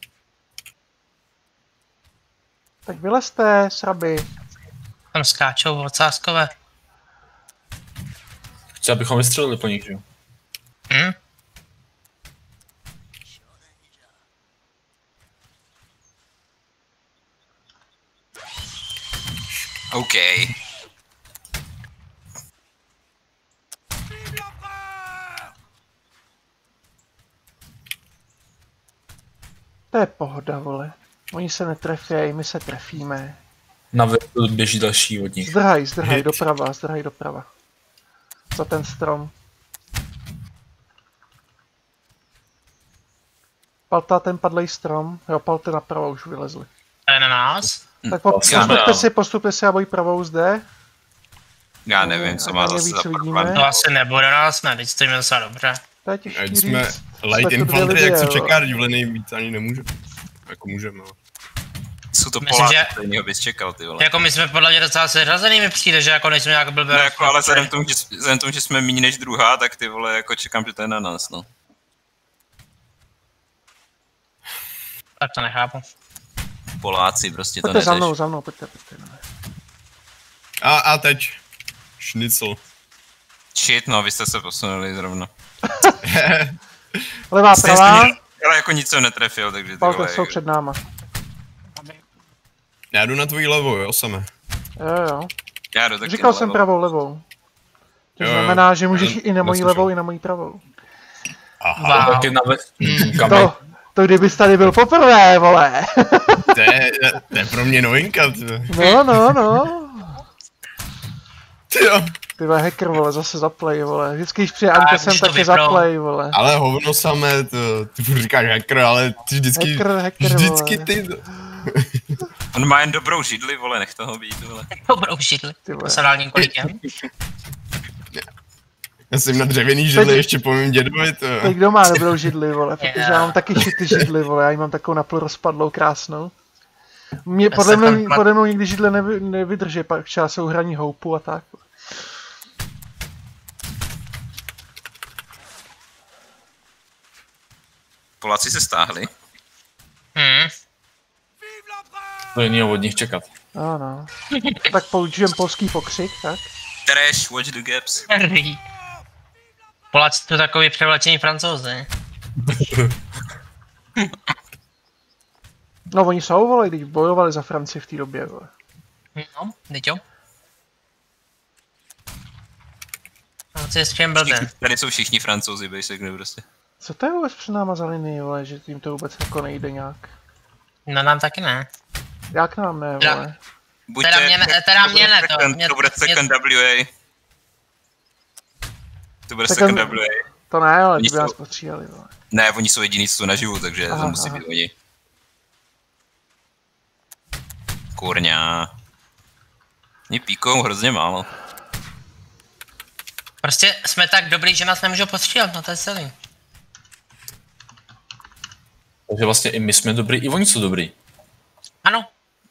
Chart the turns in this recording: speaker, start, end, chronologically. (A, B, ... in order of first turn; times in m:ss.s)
0:02.9-0:04.3 A
0:05.1-0:06.5 B
0:08.8-0:10.0 C
0:10.9-0:11.2 B
0:19.9-0:20.6 D
0:29.9-0:33.4 A
0:33.9-0:36.3 C
0:35.4-0:37.5 A
0:38.5-0:39.3 A
0:43.9-0:46.7 A
0:47.1-0:47.8 B
0:48.0-0:48.9 D
0:48.1-0:50.6 A
0:48.3-0:49.1 C
0:51.9-0:53.8 D
0:52.0-0:53.6 A
0:53.5-0:55.8 B
0:56.0-0:58.6 A
0:56.3-0:59.9 E
1:00.5-1:01.2 E
1:02.1-1:04.2 D
1:02.4-1:02.9 B
1:04.0-1:07.7 B
1:06.9-1:11.5 D
1:15.2-1:15.8 B
1:16.8-1:18.1 D
1:17.6-1:19.2 A
1:20.6-1:21.4 E
1:22.0-1:22.6 E
1:23.6-1:25.3 D
1:25.7-1:26.0 A
1:26.0-1:26.6 E
1:27.3-1:28.2 A
1:27.5-1:30.4 D
1:29.8-1:30.8 A
1:32.9-1:34.3 E
1:34.8-1:35.3 A
1:35.7-1:36.6 D
1:36.0-1:37.2 A
1:38.2-1:40.6 A
1:38.2-1:39.9 E
1:41.6-1:42.2 E
1:41.8-1:42.4 B
1:41.9-1:43.5 C
1:42.9-1:43.3 E
1:43.2-1:46.6 A
1:46.5-1:49.4 E
1:48.7-1:50.2 A
1:51.7-1:52.2 E
1:52.4-1:56.4 A
1:54.7-1:55.9 B
1:56.3-2:02.0 E
1:59.6-2:00.9 A
2:02.5-2:04.7 D
2:04.8-2:06.8 B
2:05.7-2:06.0 A
2:09.1-2:12.0 E
2:09.9-2:10.2 A
2:11.4-2:16.3 A
2:12.8-2:13.4 B
2:17.3-2:21.7 A
2:17.5-2:18.2 B
2:28.2-2:29.1 D
2:30.2-2:30.5 B
2:32.4-2:33.3 C
2:33.6-2:36.5 A
2:34.4-2:34.6 B
2:36.9-2:38.1 D
2:38.1-2:38.6 B
2:39.9-2:41.9 B
2:42.5-2:42.9 C
2:45.9-2:48.5 A
2:49.2-2:50.0 B
2:53.6-2:54.5 B
2:54.2-2:56.4 D
2:56.8-3:00.1 A
3:00.9-3:01.7 B
3:02.3-3:03.4 A
3:03.9-3:06.9 D
3:04.0-3:06.2 B
3:09.3-3:10.2 D
3:09.5-3:10.0 A
3:10.5-3:12.1 A
3:11.0-3:11.3 D
3:12.3-3:14.7 D
3:13.9-3:14.4 A
3:18.0-3:18.7 D
3:20.1-3:21.3 D
3:23.4-3:26.1 B
3:29.1-3:30.9 C